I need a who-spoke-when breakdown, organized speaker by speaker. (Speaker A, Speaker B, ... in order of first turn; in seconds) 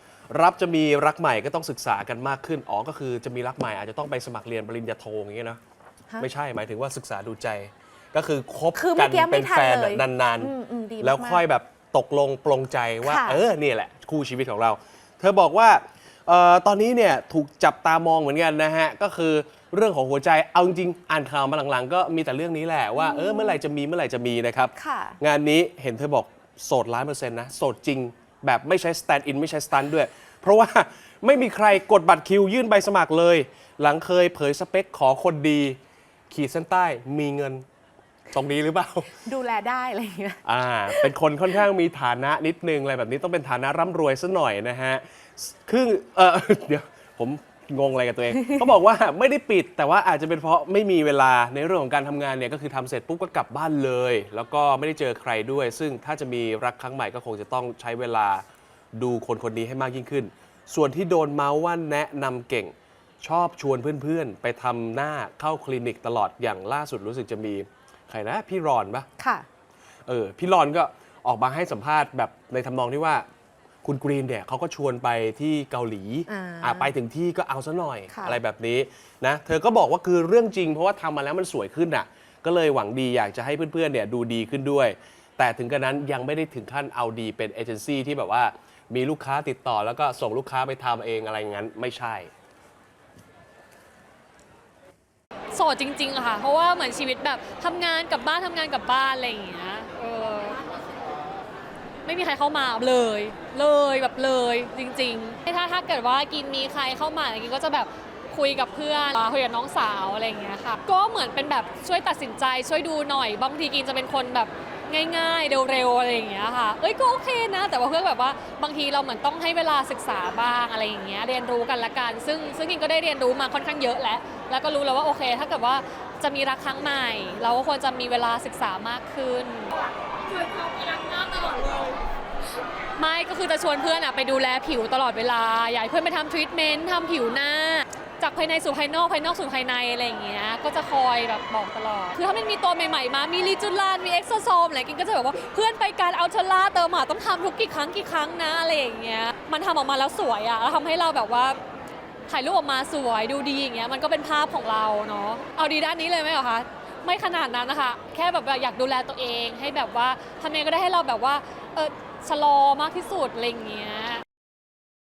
Speaker A: 0.3-5.6, 6.2-35.8, 36.3-37.6, 38.3-39.2, 40.4-58.4, 59.0-69.1, 70.1-73.2, 73.8-92.3
Speaker B: 8.7-11.4, 13.0-13.4, 22.9-23.6, 24.8-25.2, 39.2-41.1, 69.2-69.5, 76.3-76.9, 78.1-78.4
Speaker C: 95.5-100.6, 102.0-129.8, 130.8-131.9, 132.9-151.6, 152.3-164.2